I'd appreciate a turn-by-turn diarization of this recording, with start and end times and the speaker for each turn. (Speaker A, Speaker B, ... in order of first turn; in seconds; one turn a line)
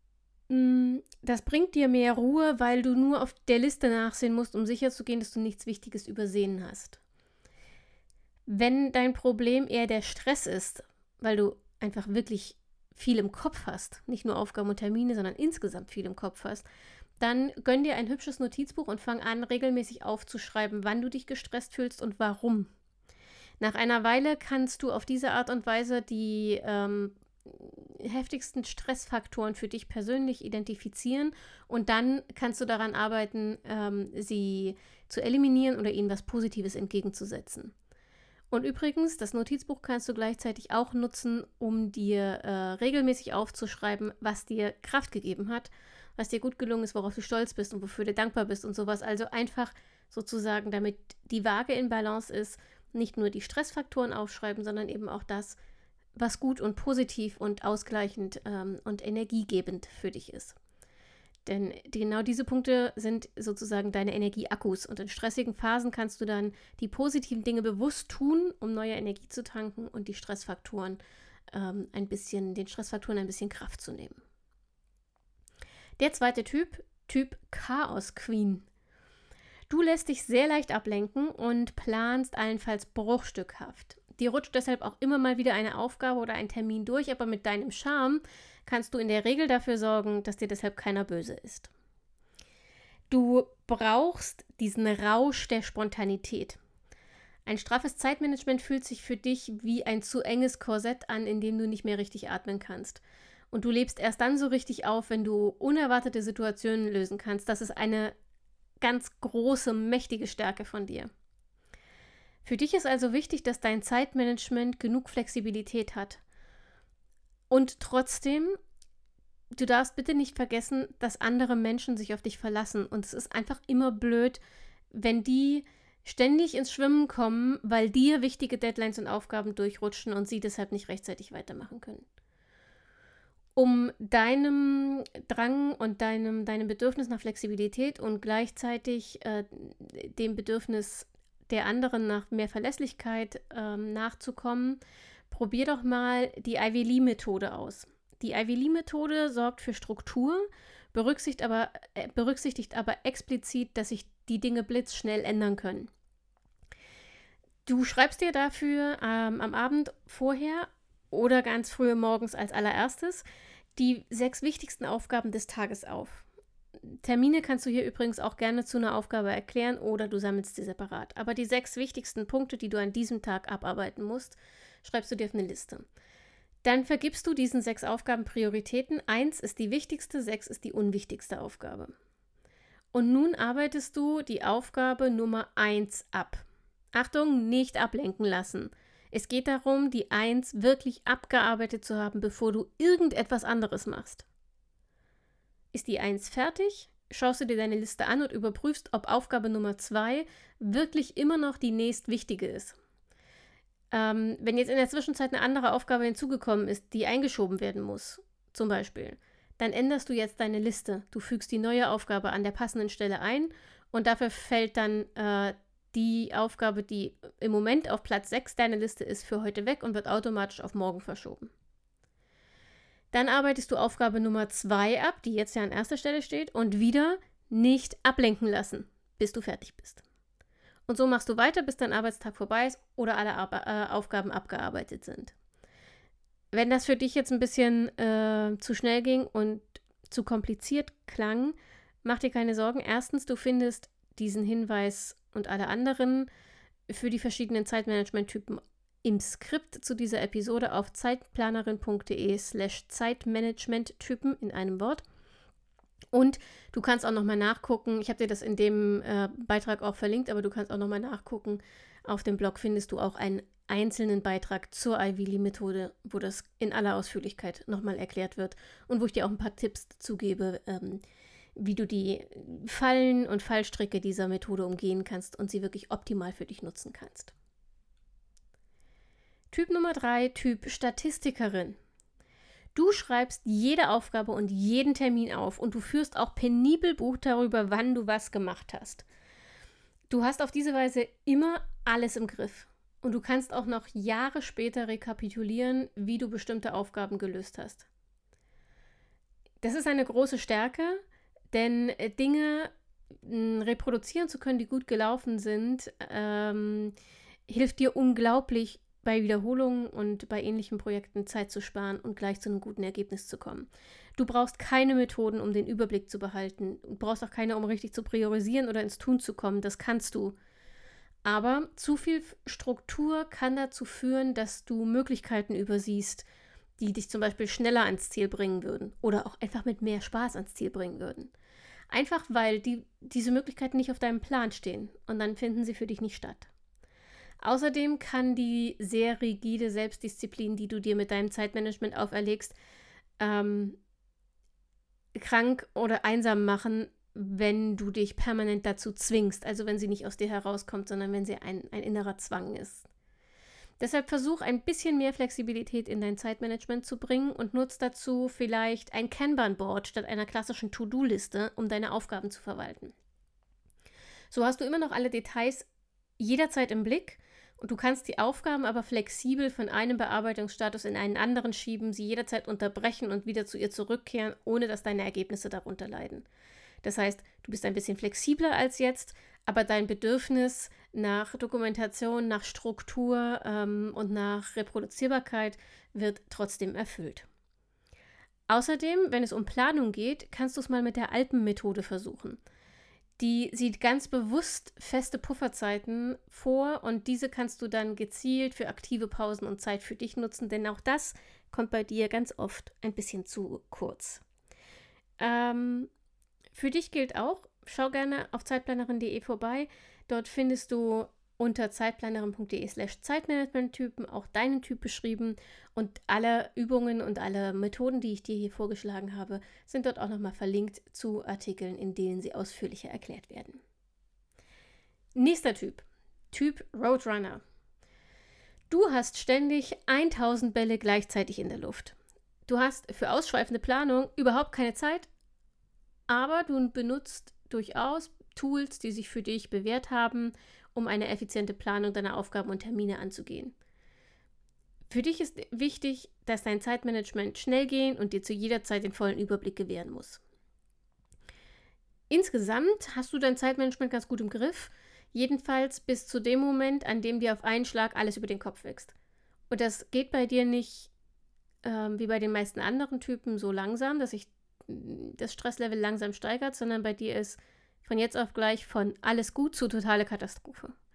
Speaker A: 0.5-7.0
Speaker A: 8.5-16.7
Speaker A: 17.2-22.7
Speaker A: 23.6-37.7
Speaker A: 38.5-55.6
Speaker A: 56.2-60.6
Speaker A: 61.5-71.0
Speaker A: 71.5-74.2
Speaker A: 76.0-78.7
Speaker A: 79.7-91.7
Speaker A: 93.1-96.6
Speaker A: 97.5-108.2
Speaker A: 108.8-111.1
Speaker A: 112.4-116.2
Speaker A: 117.5-118.6
Speaker A: 119.5-124.4
Speaker A: 124.9-132.1
Speaker A: 133.6-155.9
Speaker A: 157.7-163.2
Speaker A: 163.8-166.3
Speaker A: 166.8-175.8
Speaker A: 176.6-181.9
Speaker A: 182.9-194.3
Speaker A: 195.7-202.8
Speaker A: 203.9-221.5
Speaker A: 223.1-230.0
Speaker A: 230.9-235.3
Speaker A: 236.5-246.3
Speaker A: 246.9-255.0
Speaker A: 256.1-271.0
Speaker A: 271.6-277.3
Speaker A: 279.5-281.8
Speaker A: 282.8-289.1
Speaker A: 290.1-297.9
Speaker A: 299.6-301.0
Speaker A: 301.5-302.7
Speaker A: 303.2-306.9
Speaker A: 307.5-320.4
Speaker A: 321.2-326.3
Speaker A: 326.8-331.3
Speaker A: 331.9-336.5
Speaker A: 337.4-342.6
Speaker A: 343.2-343.8
Speaker A: 345.1-352.9
Speaker A: 353.8-362.9
Speaker A: 364.3-376.2
Speaker A: 376.8-387.3
Speaker A: 388.5-392.4
Speaker A: 393.2-404.2
Speaker A: 405.2-405.9
Speaker A: 406.5-423.6
Speaker A: 425.1-427.4
Speaker A: 428.7-432.0
Speaker A: 432.5-435.1
Speaker A: 436.1-443.6
Speaker A: 444.9-450.2
Speaker A: 452.1-458.9
Speaker A: 459.5-460.9
Speaker A: 461.6-470.7